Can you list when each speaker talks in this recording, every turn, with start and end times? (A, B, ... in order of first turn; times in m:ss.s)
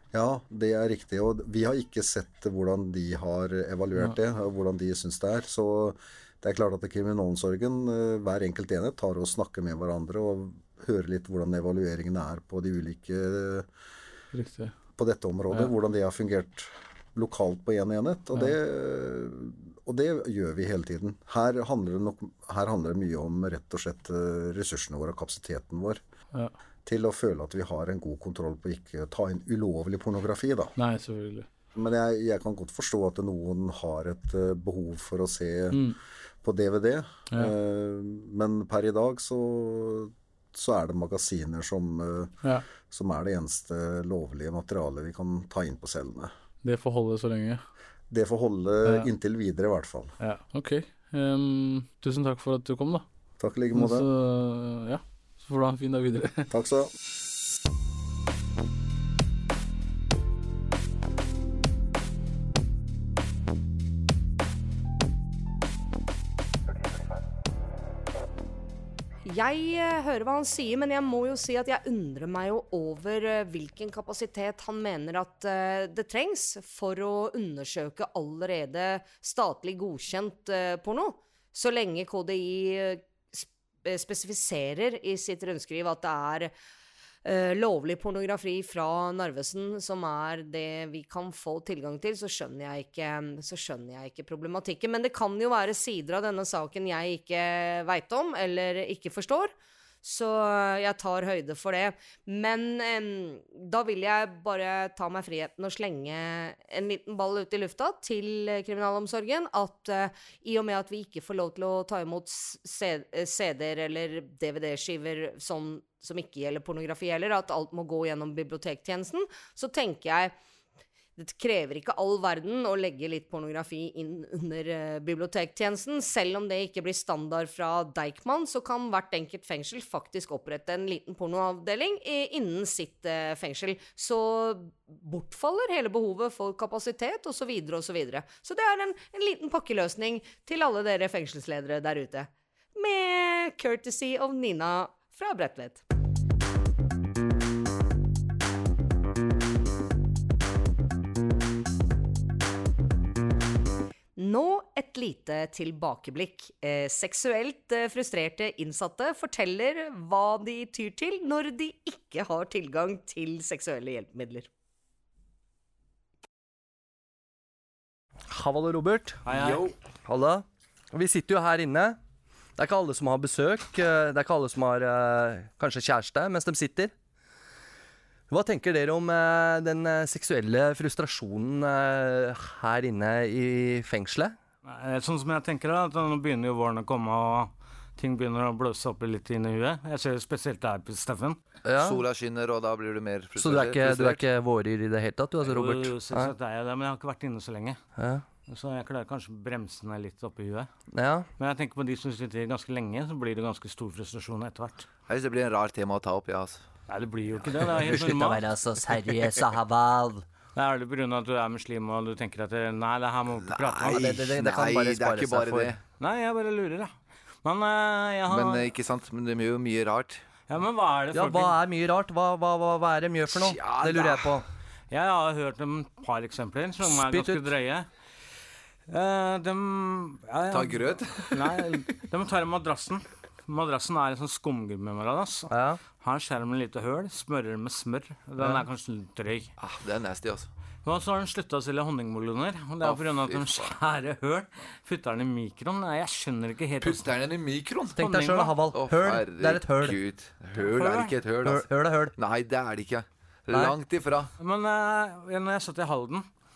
0:00.1-0:13.7 A
0:14.3-0:14.7 B
0:15.0-0:26.0 A
0:26.8-0:30.8 A
0:30.8-0:31.5 B
0:31.7-0:35.9 A
0:35.7-0:36.0 B
0:36.4-0:46.3 A
0:46.6-0:47.6 B
0:48.1-0:50.1 A
0:50.2-0:53.1 B
0:53.4-0:54.1 A
0:53.7-0:56.5 B
0:56.5-0:56.9 A
1:09.2-1:26.5 C
1:27.2-2:00.3 C
2:01.2-2:25.8 C
2:34.2-2:44.5 C
2:48.3-2:52.0 D
2:49.2-2:49.7 E
2:52.6-2:56.9 D
2:58.3-3:04.4 D
3:04.6-3:11.4 E
3:11.6-3:12.0 D
3:11.7-3:14.3 F
3:13.3-3:16.3 D
3:15.4-3:17.8 E
3:18.0-3:18.2 D
3:18.4-3:20.7 E
3:20.9-3:21.3 D
3:21.4-3:24.9 E
3:25.1-3:26.7 F
3:26.9-3:29.1 E
3:27.4-3:30.2 D
3:30.5-3:34.2 E
3:33.4-3:35.8 F
3:33.8-3:35.7 D
3:36.0-3:38.7 E
3:38.3-3:40.2 F
3:40.5-3:41.6 E
3:41.1-3:44.4 D
3:43.3-3:44.4 F
3:44.9-3:47.9 E
3:46.8-3:47.4 D
3:48.9-3:59.5 E
3:50.5-3:51.7 F
3:55.5-3:55.8 D
3:58.4-3:58.6 D
3:59.6-4:00.5 F
4:00.8-4:07.2 E
4:02.8-4:03.7 F
4:06.8-4:08.0 F
4:07.9-4:10.2 D
4:07.9-4:08.7 E
4:08.7-4:14.3 F
4:10.6-4:11.3 E
4:11.3-4:12.2 D
4:13.5-4:13.8 D
4:14.4-4:16.3 E